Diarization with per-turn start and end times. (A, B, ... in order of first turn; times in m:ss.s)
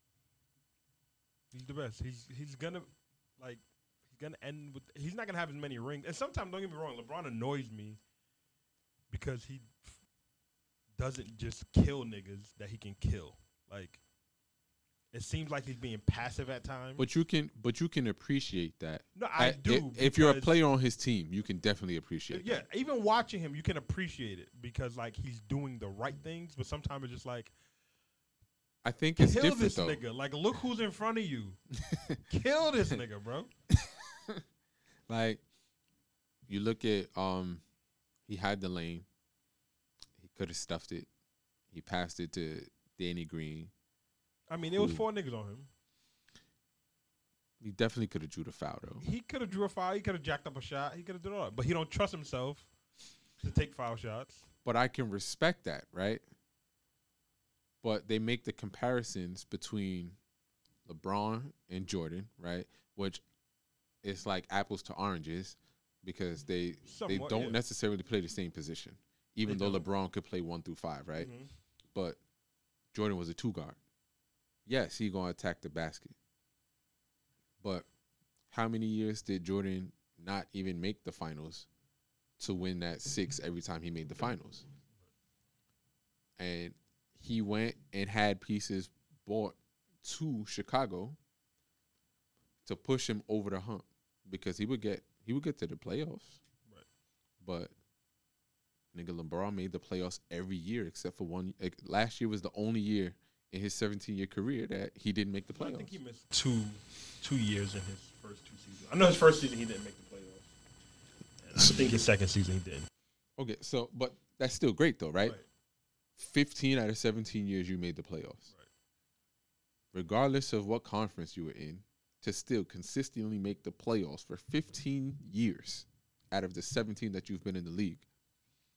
0:01.5-0:08.0 A
0:09.1-0:10.0 A
0:11.0-0:14.0 A
0:15.1-0:17.1 A
0:17.0-0:22.6 B
0:19.1-0:20.6 A
0:22.3-0:27.5 A
0:28.8-0:30.0 B
0:29.2-0:31.6 A
0:32.3-0:33.5 A
0:35.1-0:35.4 B
0:36.5-0:37.6 B
0:38.3-0:39.0 B
0:40.2-0:41.1 B
0:41.7-0:43.7 B
0:44.5-0:45.7 A
0:44.6-0:45.0 B
0:47.6-0:49.0 B
0:49.0-0:52.7 A
0:53.4-0:54.5 A
0:54.6-0:56.2 B
0:57.8-1:00.2 B
1:00.8-1:03.2 B
1:04.0-1:11.4 B
1:06.8-1:07.6 A
1:09.4-1:09.8 A
1:11.1-1:11.5 A
1:11.9-1:12.2 B
1:12.9-1:13.8 B
1:14.6-1:16.1 B
1:17.6-1:17.9 B
1:18.5-1:21.7 B
1:22.4-1:24.6 B
1:26.4-1:31.2 B
1:32.6-1:36.4 B
1:37.4-1:37.7 B
1:38.9-1:45.9 B
1:45.5-1:50.5 A
1:51.4-1:52.9 A
1:53.4-1:55.4 B
1:56.2-1:58.4 B
1:59.9-2:08.0 B